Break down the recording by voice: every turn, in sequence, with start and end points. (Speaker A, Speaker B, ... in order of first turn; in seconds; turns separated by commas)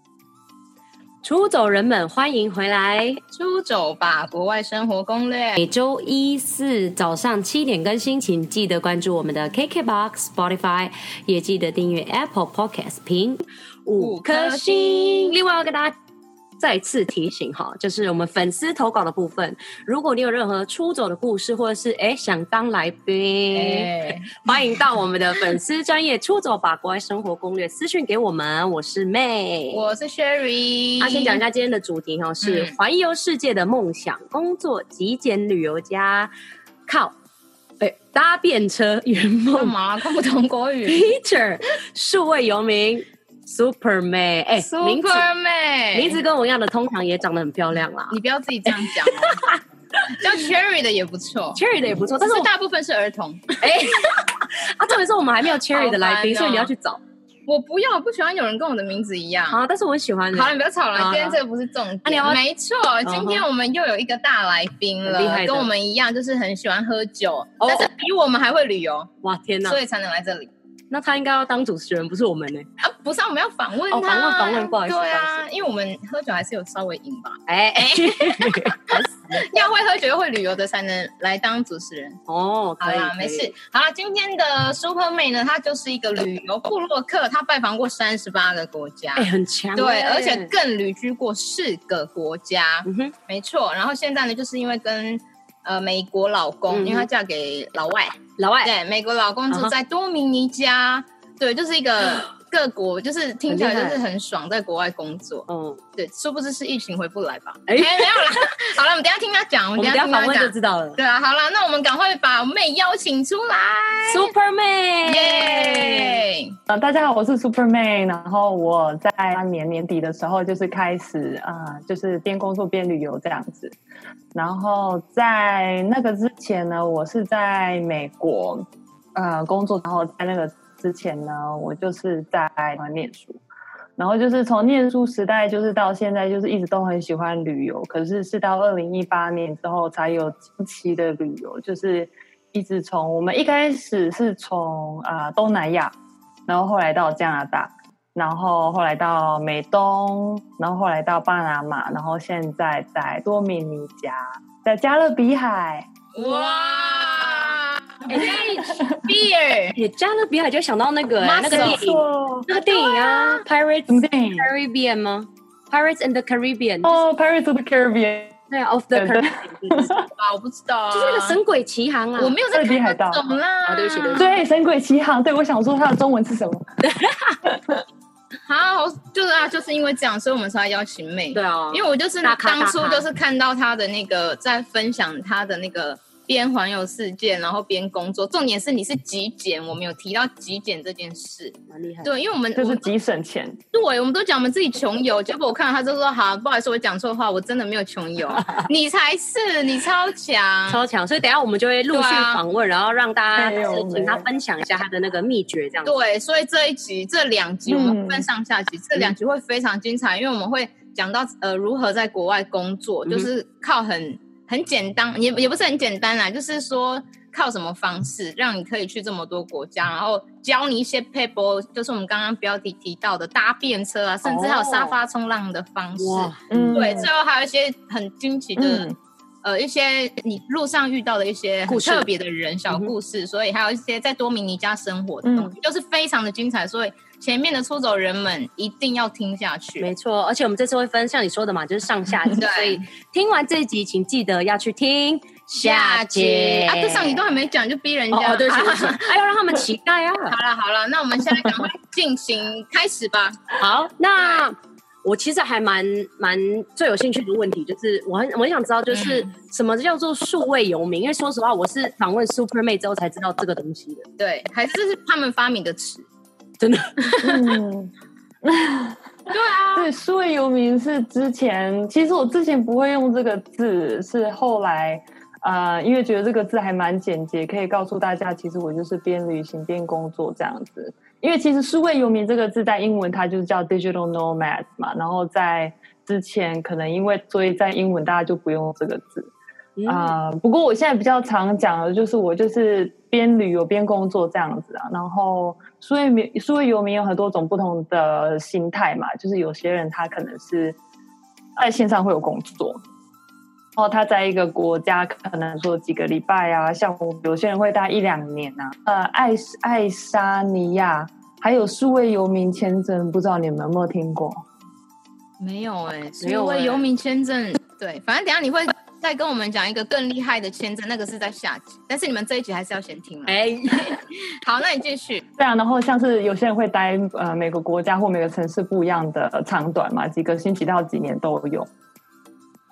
Speaker A: 1.2-3.2, Speaker B: 3.3-5.6, Speaker A: 5.6-15.9, Speaker B: 14.0-15.4, Speaker A: 16.6-29.9, Speaker B: 23.5-24.9, Speaker B: 29.7-31.4, Speaker A: 31.0-36.3, Speaker B: 32.4-32.8, Speaker A: 36.9-37.1, Speaker A: 37.8-39.7, Speaker B: 39.5-41.1, Speaker A: 40.9-45.2, Speaker B: 44.6-46.2, Speaker A: 45.9-50.2, Speaker B: 48.1-49.5, Speaker B: 50.1-51.6, Speaker A: 51.5-52.5, Speaker B: 52.2-54.1, Speaker A: 53.6-57.0, Speaker B: 55.4-56.7, Speaker B: 57.5-59.6, Speaker A: 59.5-61.4, Speaker B: 60.3-69.1, Speaker A: 62.0-62.4, Speaker A: 63.0-63.5, Speaker A: 65.0-65.7, Speaker A: 67.6-67.9, Speaker A: 69.2-69.8, Speaker B: 69.6-70.5, Speaker A: 70.9-72.7, Speaker B: 72.8-82.2, Speaker A: 73.9-75.4, Speaker A: 77.5-79.6, Speaker A: 82.3-83.5, Speaker B: 82.8-114.3, Speaker A: 89.1-90.5, Speaker A: 92.8-93.1, Speaker A: 96.7-97.1, Speaker A: 98.4-98.7, Speaker A: 103.5-104.0, Speaker A: 105.5-105.8, Speaker A: 107.7-108.5, Speaker A: 109.8-111.0, Speaker A: 114.1-116.2, Speaker B: 115.0-116.6, Speaker C: 116.7-123.8, Speaker C: 124.3-133.4, Speaker C: 134.0-145.9, Speaker C: 146.5-155.9, Speaker B: 156.1-159.8, Speaker A: 158.1-158.8, Speaker C: 158.2-159.0, Speaker A: 159.7-167.0, Speaker B: 161.2-161.8, Speaker C: 161.5-162.5, Speaker B: 162.6-163.4, Speaker C: 163.9-164.5, Speaker C: 166.8-168.4, Speaker A: 168.5-169.9, Speaker C: 168.9-170.1, Speaker B: 170.2-171.4, Speaker A: 170.9-172.4, Speaker B: 172.2-174.3, Speaker C: 172.5-173.2, Speaker A: 173.6-174.3, Speaker C: 174.2-176.7, Speaker A: 176.8-177.4, Speaker C: 177.4-177.8, Speaker B: 178.5-192.9, Speaker A: 181.3-183.1, Speaker A: 191.7-192.1, Speaker C: 192.5-193.6, Speaker B: 193.7-200.8, Speaker A: 198.3-198.7, Speaker A: 200.7-205.9, Speaker B: 201.9-202.4, Speaker C: 203.3-204.3, Speaker B: 205.8-228.9, Speaker C: 207.7-208.3, Speaker A: 224.2-225.0, Speaker A: 226.0-227.1, Speaker C: 226.5-227.1, Speaker C: 228.6-228.9, Speaker B: 229.4-239.9, Speaker A: 231.7-232.1, Speaker C: 235.2-235.5, Speaker A: 239.8-247.2, Speaker B: 242.4-242.8, Speaker B: 245.6-249.2, Speaker A: 248.1-250.4, Speaker B: 250.3-253.6, Speaker A: 253.6-264.1, Speaker B: 254.2-254.4, Speaker B: 258.9-259.3, Speaker B: 264.2-266.1, Speaker A: 266.6-267.1, Speaker B: 267.0-267.6, Speaker C: 267.2-269.0, Speaker B: 269.3-269.9, Speaker C: 269.7-289.3, Speaker A: 289.8-290.1, Speaker C: 289.9-300.8, Speaker C: 301.6-302.8, Speaker C: 303.8-314.4, Speaker B: 315.4-325.2, Speaker A: 316.2-316.9, Speaker A: 323.3-324.0, Speaker C: 325.4-331.7